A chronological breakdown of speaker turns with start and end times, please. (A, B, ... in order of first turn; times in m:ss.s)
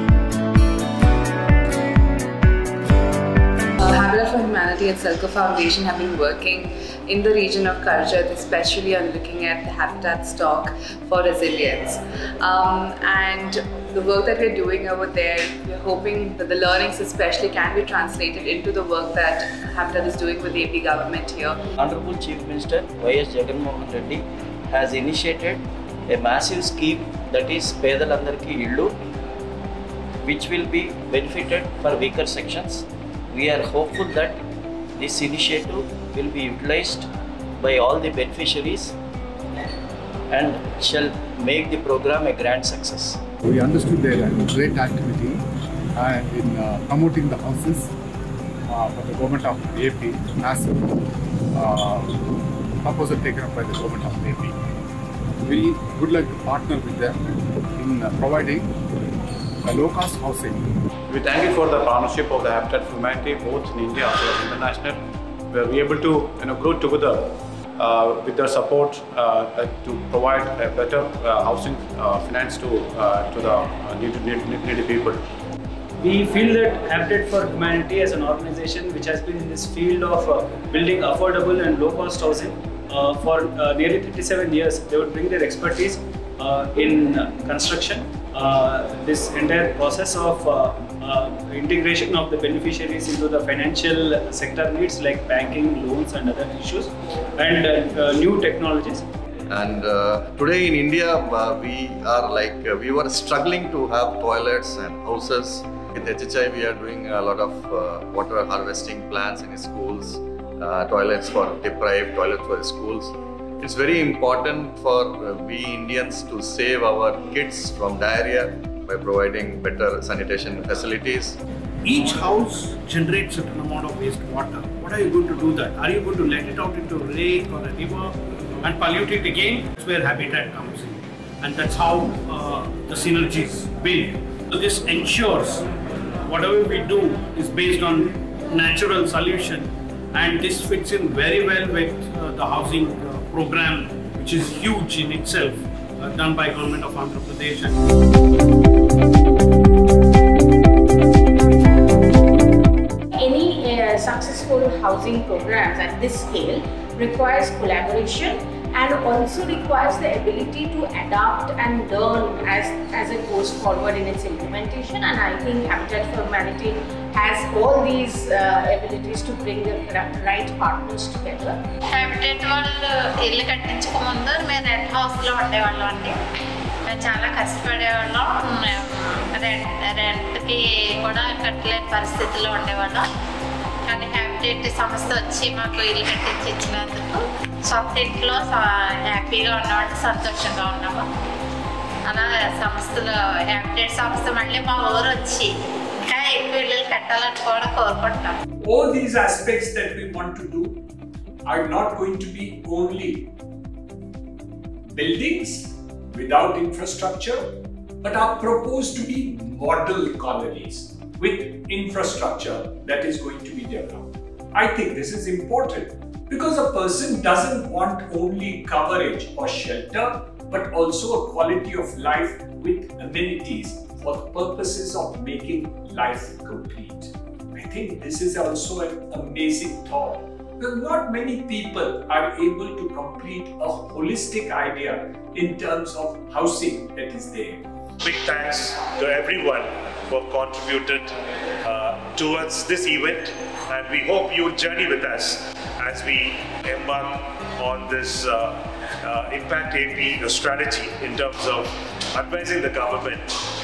0:03.9-0:21.5 A
0:21.8-0:29.0 B
0:30.2-0:34.4 B
0:35.0-0:37.1 B
0:37.6-0:38.9 B
0:40.3-0:43.2 B
0:43.4-0:45.4 C
0:45.9-0:47.9 C
0:48.7-0:50.8 C
0:51.5-0:52.2 C
0:52.8-0:54.5 C
0:55.4-0:57.2 C
0:57.8-0:58.7 C
0:59.6-1:00.7 C
1:01.1-1:15.2 D
1:16.0-1:39.0 E
1:39.5-2:01.4 F
2:01.8-2:15.7 G
2:16.2-2:27.8 G
2:33.1-2:51.6 H
2:52.0-2:56.1 I
2:55.3-2:56.0 B
2:56.9-2:58.3 I
2:59.5-3:03.0 I
3:03.9-3:08.5 I
3:09.2-3:11.0 B
3:12.1-3:13.1 B
3:13.6-3:15.4 B
3:13.7-3:15.0 I
3:16.1-3:18.2 B
3:18.6-3:20.8 J
3:21.4-3:23.3 J
3:24.9-3:27.5 J
3:28.0-3:57.6 J
3:58.0-4:01.1 K
4:01.6-4:13.3 K